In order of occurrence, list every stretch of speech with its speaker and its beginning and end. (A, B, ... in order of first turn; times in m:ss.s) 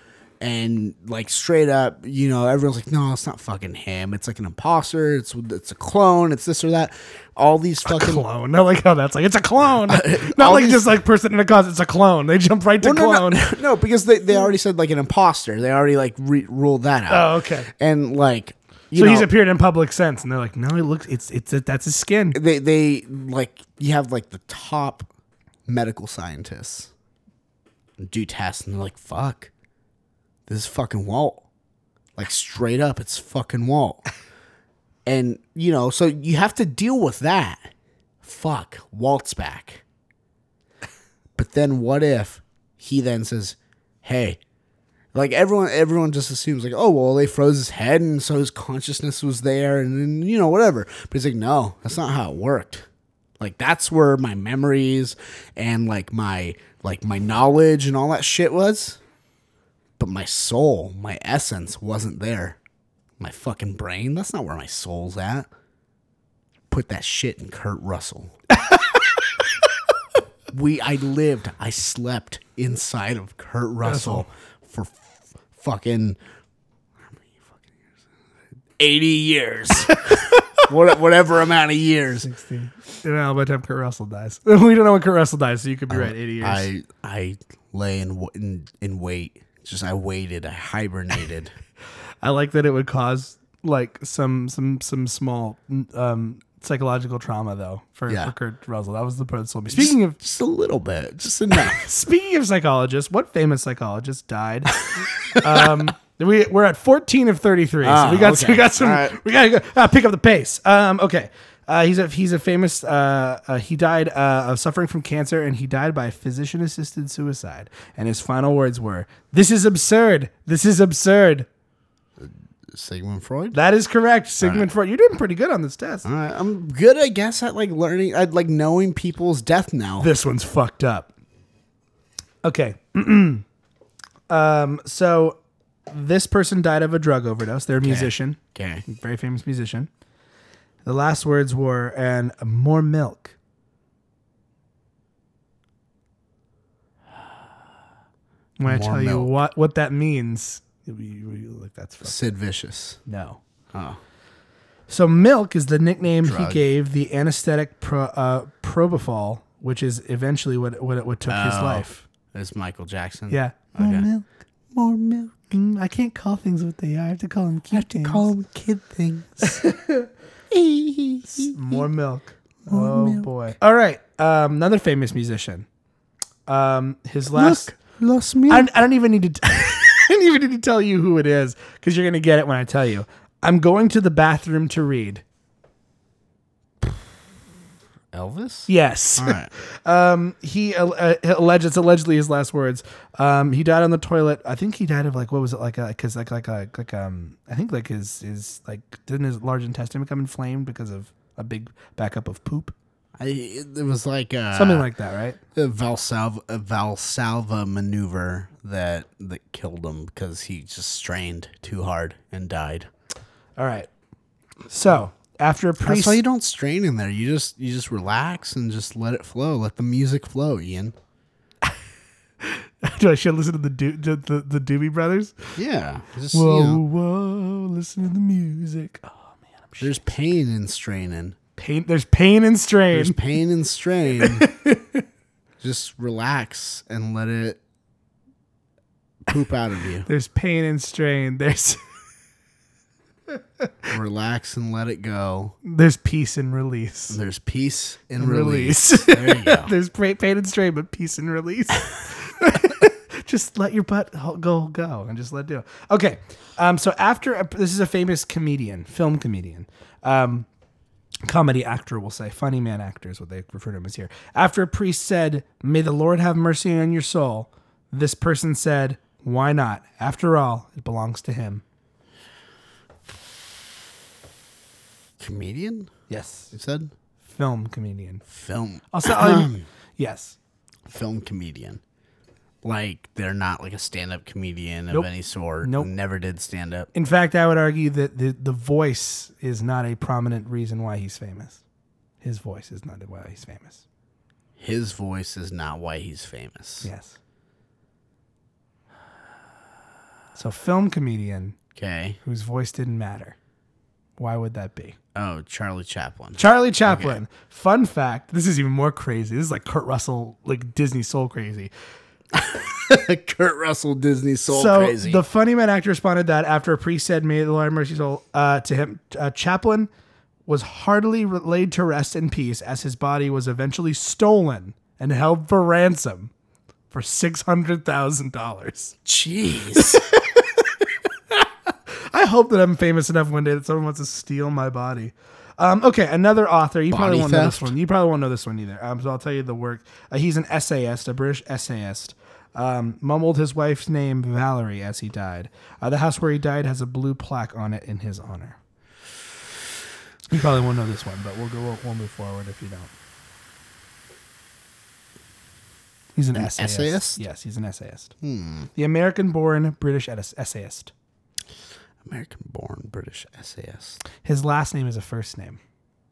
0:00.4-0:08.2 A
0:07.8-0:13.6 B
0:09.8-0:10.8 A
0:12.8-0:19.3 A
0:17.1-0:17.7 B
0:18.9-0:22.4 B
0:22.3-0:25.1 A
0:25.6-0:26.9 A
0:28.0-0:29.5 A
0:30.5-0:31.4 A
0:32.2-0:34.0 A
0:35.0-0:37.7 A
0:38.2-0:39.8 A
0:41.4-0:44.4 A
0:45.1-0:52.9 A
0:53.4-0:59.0 A
1:00.0-1:02.6 A
1:03.2-1:05.5 A
1:06.7-1:08.3 A
1:10.5-1:16.2 A
1:13.8-1:14.2 B
1:17.1-1:17.5 A
1:18.8-1:22.3 A
1:20.0-1:20.6 B
1:22.2-1:26.7 B
1:25.9-1:31.5 A
1:32.2-1:40.2 B
1:38.1-1:38.3 A
1:39.7-1:41.9 A
1:41.5-2:01.5 B
1:45.4-1:45.7 A
1:47.8-1:49.2 A
2:02.2-2:03.6 A
2:03.5-2:06.0 B
2:04.4-2:04.7 A
2:06.0-2:10.1 A
2:10.0-2:11.1 B
2:12.4-2:13.4 B
2:14.3-2:15.4 B
2:15.9-2:19.9 B
2:17.8-2:18.8 A
2:20.8-2:23.3 B
2:28.6-2:32.2 B
2:28.6-2:29.3 A
2:32.0-2:33.0 A
2:33.0-2:33.4 B
2:33.7-2:34.0 A
2:34.9-2:42.0 B
2:36.2-2:36.6 A
2:41.3-2:44.1 A
2:43.3-2:44.2 B
2:44.7-2:45.5 A
2:45.5-2:48.3 B
2:47.7-2:49.6 A
2:49.4-2:50.1 B
2:50.5-2:51.9 A
2:51.4-2:55.6 B
2:52.7-2:53.3 A
2:56.5-2:57.7 B
2:57.3-2:58.7 A
2:58.5-3:05.2 B
3:08.1-3:09.5 A
3:08.7-3:22.7 B
3:23.2-3:24.9 A
3:24.5-3:25.4 B
3:25.5-3:32.9 A
3:33.6-3:33.9 B
3:34.7-3:36.2 B
3:35.8-3:40.9 A
3:42.4-3:45.6 B
3:45.6-3:46.8 A
3:46.3-3:50.0 B
3:49.8-3:51.4 A
3:51.6-3:53.2 B
3:52.9-3:54.5 A
3:54.2-3:55.0 B
3:55.6-3:57.6 A
3:59.3-4:00.1 A
4:00.0-4:01.8 B
4:03.9-4:05.5 A
4:05.6-4:07.2 B
4:07.1-4:09.7 A
4:08.2-4:20.5 B
4:21.2-4:31.6 B
4:35.2-4:35.9 A
4:36.1-4:36.5 B
4:36.5-4:36.9 A
4:37.2-4:38.2 B
4:38.3-4:39.6 A
4:38.9-4:40.4 B
4:40.8-4:41.8 A
4:42.6-4:46.9 A
4:45.6-4:45.9 B
4:46.9-4:51.6 B
4:52.2-4:53.8 B
4:54.6-4:56.9 A
4:56.8-4:57.2 B
5:00.3-5:01.6 B
5:01.7-5:02.2 A
5:02.2-5:03.4 B
5:04.2-5:05.0 B
5:05.1-5:07.2 A
5:06.4-5:11.7 B
5:12.3-5:15.2 A
5:14.5-5:19.9 B
5:20.5-5:26.3 B
5:26.9-5:29.0 B
5:29.0-5:30.0 A
5:29.7-5:48.6 B
5:36.9-5:37.7 A
5:50.3-5:52.9 B
5:56.2-5:58.1 B
5:56.3-5:57.2 A
5:58.2-5:58.7 A
5:58.8-6:00.9 B
6:02.0-6:04.0 A
6:04.2-6:05.6 B